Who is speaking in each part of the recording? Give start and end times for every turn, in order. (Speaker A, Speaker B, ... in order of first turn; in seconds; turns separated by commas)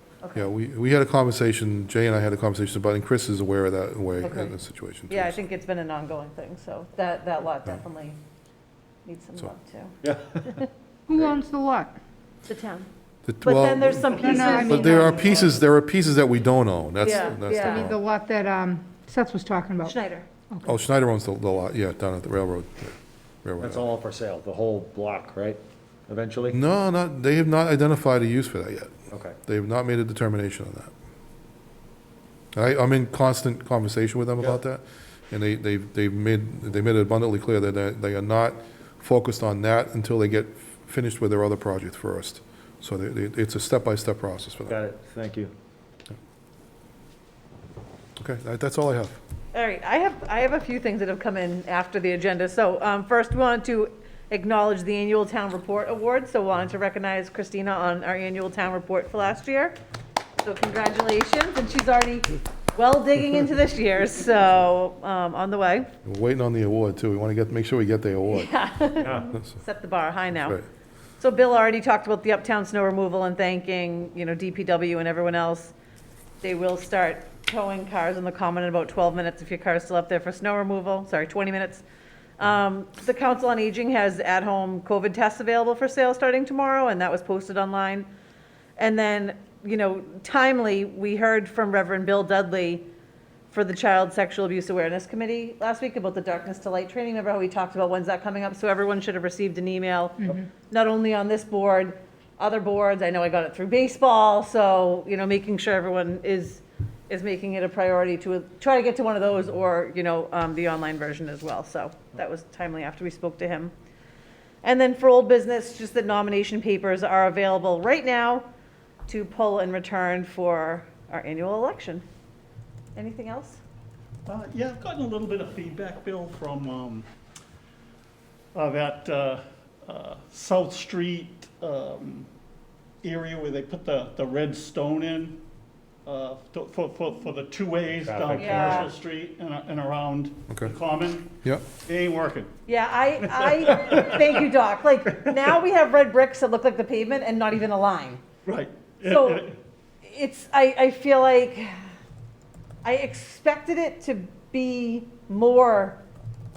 Speaker A: 0.2-0.5, Speaker B: 0.3-5.5, Speaker A: 4.2-8.2, Speaker A: 9.0-9.9, Speaker C: 10.0-10.6, Speaker D: 11.1-11.9, Speaker A: 12.5-12.9, Speaker B: 13.2-18.0, Speaker A: 13.4-15.1, Speaker E: 14.1-15.6, Speaker D: 14.2-15.3, Speaker A: 17.0-17.9, Speaker D: 17.3-20.8, Speaker A: 19.9-20.4, Speaker B: 20.6-23.8, Speaker C: 23.6-26.6, Speaker B: 26.5-30.9, Speaker C: 29.1-29.4, Speaker B: 32.5-44.8, Speaker C: 44.7-45.5, Speaker B: 48.2-49.2, Speaker A: 49.5-59.8, Speaker A: 60.4-65.9, Speaker B: 66.0-68.5, Speaker A: 68.3-70.6, Speaker C: 69.0-69.3, Speaker A: 71.2-75.7, Speaker A: 76.4-81.8, Speaker A: 82.4-88.1, Speaker A: 88.8-92.8, Speaker A: 93.5-113.7, Speaker A: 114.6-118.5, Speaker A: 119.1-122.0, Speaker A: 122.9-123.6, Speaker E: 124.2-127.0, Speaker E: 128.5-132.3, Speaker E: 133.0-135.4, Speaker E: 136.1-142.5, Speaker C: 138.0-138.9, Speaker A: 138.3-138.9, Speaker B: 140.5-140.7, Speaker A: 142.7-148.2, Speaker E: 143.2-144.4, Speaker E: 148.4-149.5, Speaker A: 149.0-149.5, Speaker A: 150.0-151.8, Speaker A: 152.8-156.0